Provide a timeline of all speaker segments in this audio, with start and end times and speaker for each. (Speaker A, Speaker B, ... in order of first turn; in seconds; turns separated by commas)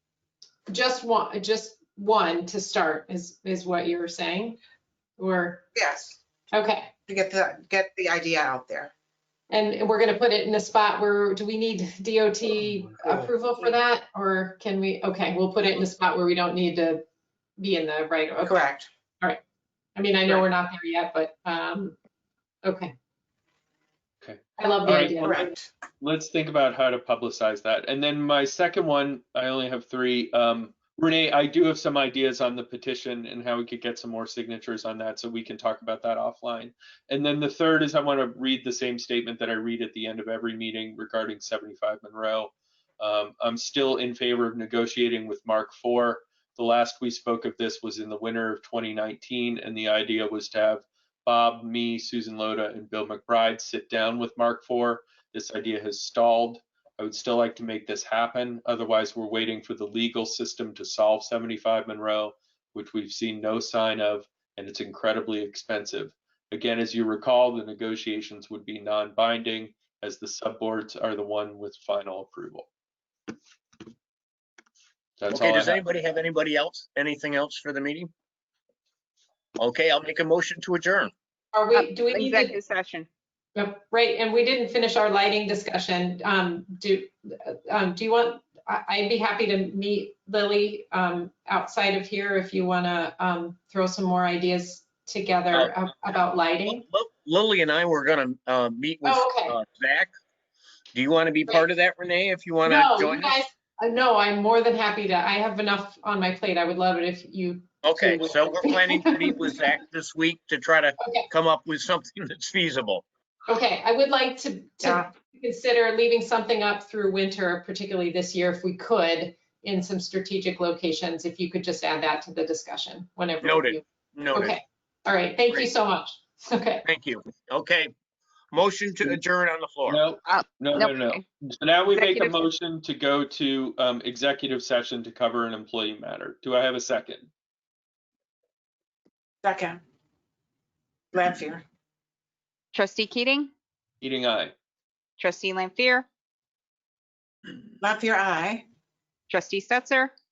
Speaker A: 0.7-4.6, Speaker A: 5.2-5.7, Speaker B: 5.8-6.2, Speaker A: 6.5-7.0, Speaker B: 7.1-8.9, Speaker A: 9.5-17.0, Speaker A: 17.6-18.7, Speaker B: 18.4-18.9, Speaker A: 20.0-22.0, Speaker A: 22.6-22.9, Speaker C: 24.2-25.2, Speaker A: 24.6-25.5, Speaker B: 25.2-25.7, Speaker C: 26.0-72.7, Speaker C: 75.2-75.8, Speaker D: 75.3-78.1, Speaker D: 79.6-81.1, Speaker A: 81.5-82.6, Speaker E: 81.7-83.1, Speaker A: 83.6-96.8, Speaker D: 95.5-100.1, Speaker A: 99.0-99.6, Speaker D: 100.9-103.4, Speaker A: 102.6-109.6, Speaker D: 107.8-113.0, Speaker A: 111.0-111.3, Speaker A: 113.5-126.8, Speaker D: 123.4-124.5, Speaker D: 126.8-127.9, Speaker D: 128.5-130.1, Speaker C: 129.9-137.3, Speaker E: 130.3-131.2, Speaker E: 131.9-132.4, Speaker B: 139.4-139.8, Speaker B: 141.1-141.6, Speaker E: 142.7-143.5, Speaker C: 144.0-144.5, Speaker E: 145.2-146.1, Speaker B: 147.8-148.6, Speaker E: 149.3-150.1